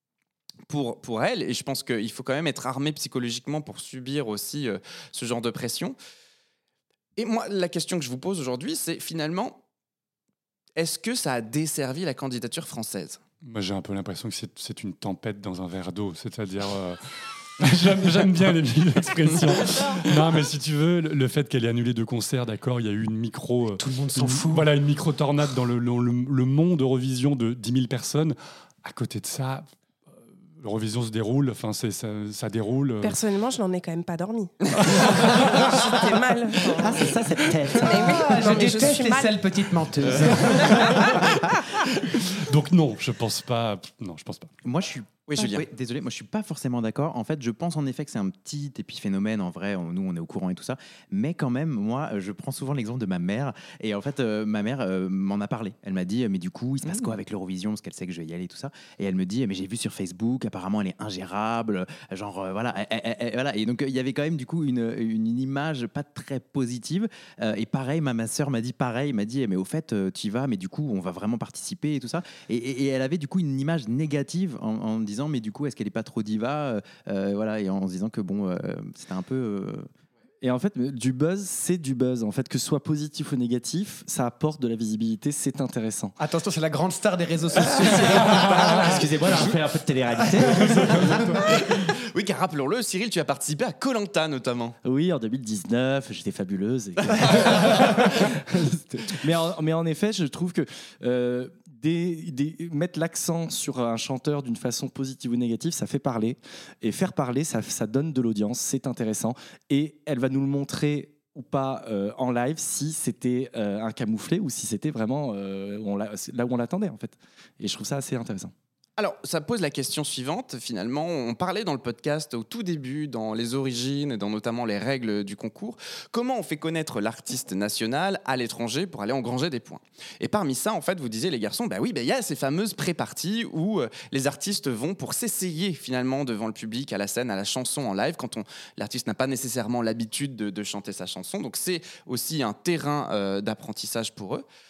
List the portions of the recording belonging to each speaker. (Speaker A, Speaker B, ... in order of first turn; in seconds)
Speaker A: 0.7-6.0, 7.2-9.6, 10.8-13.2, 45.4-45.6, 91.4-94.8, 97.3-97.6, 119.0-144.4
Speaker B: 13.4-17.0, 17.6-29.7, 30.6-33.2, 35.2-35.7, 42.4-44.5, 90.7-91.4
Speaker C: 23.8-24.6, 37.8-41.1, 86.2-89.5, 90.4-91.0
Speaker D: 33.0-37.1, 37.8-39.4, 40.6-41.1
Speaker E: 36.8-38.2, 80.4-86.2, 87.8-91.2, 94.8-118.5
Speaker F: 44.6-79.9